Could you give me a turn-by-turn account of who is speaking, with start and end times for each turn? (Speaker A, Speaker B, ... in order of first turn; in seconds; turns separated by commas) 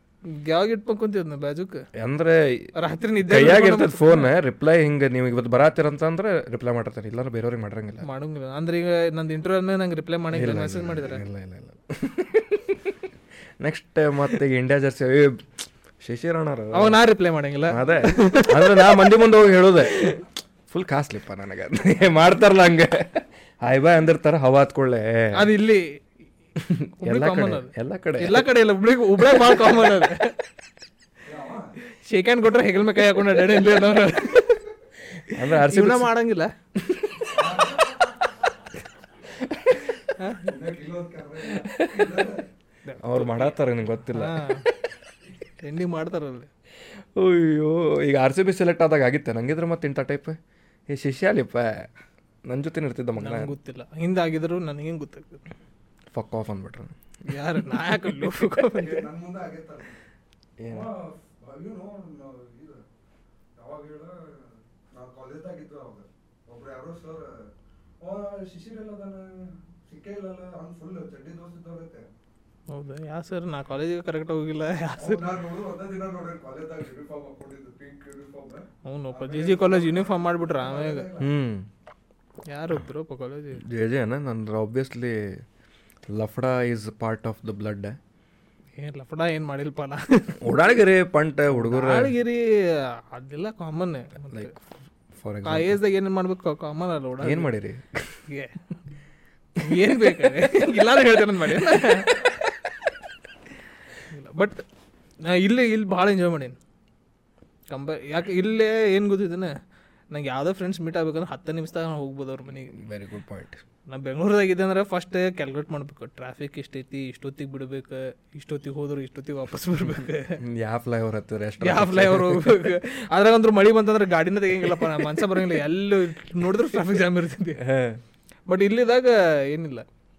Speaker A: 0.3-1.9, Speaker B: 1.9-2.7, Speaker A: 2.8-4.3, Speaker B: 3.2-8.1, Speaker A: 8.0-11.2, Speaker B: 10.3-13.1, Speaker B: 13.6-17.0, Speaker A: 16.7-19.1, Speaker B: 17.7-25.5, Speaker A: 19.9-20.2, Speaker A: 25.4-25.9, Speaker B: 26.6-28.5, Speaker A: 27.0-30.4, Speaker B: 29.2-29.7, Speaker C: 31.2-31.7, Speaker A: 31.9-34.6, Speaker B: 35.3-36.1, Speaker A: 35.5-36.5, Speaker B: 36.8-37.6, Speaker C: 37.3-38.0, Speaker B: 39.4-39.9, Speaker A: 40.2-40.5, Speaker C: 40.4-42.5, Speaker B: 41.5-42.3, Speaker A: 42.9-43.5, Speaker B: 43.0-44.7, Speaker A: 44.1-44.7, Speaker A: 45.6-46.5, Speaker B: 47.2-51.9, Speaker B: 52.5-53.5, Speaker A: 53.2-55.4, Speaker B: 56.1-57.0, Speaker A: 57.2-59.1, Speaker C: 58.7-60.0, Speaker B: 60.6-60.9, Speaker C: 60.7-62.8, Speaker C: 63.6-67.5, Speaker C: 68.0-72.1, Speaker A: 72.7-75.3, Speaker C: 75.0-81.3, Speaker A: 78.8-81.1, Speaker B: 81.2-81.7, Speaker A: 82.5-83.6, Speaker B: 83.6-85.4, Speaker B: 86.1-88.0, Speaker A: 88.8-90.6, Speaker B: 90.4-92.1, Speaker A: 91.5-94.5, Speaker B: 94.3-94.6, Speaker B: 95.1-95.8, Speaker A: 95.4-97.5, Speaker B: 97.2-98.2, Speaker A: 98.3-98.6, Speaker A: 99.6-102.4, Speaker B: 99.7-100.8, Speaker B: 101.6-102.0, Speaker A: 104.1-104.6, Speaker A: 105.2-106.6, Speaker A: 107.7-109.6, Speaker A: 110.1-112.8, Speaker B: 112.7-113.6, Speaker A: 113.9-120.4, Speaker B: 120.4-122.7, Speaker A: 121.6-127.6, Speaker B: 127.6-128.0, Speaker A: 128.5-129.8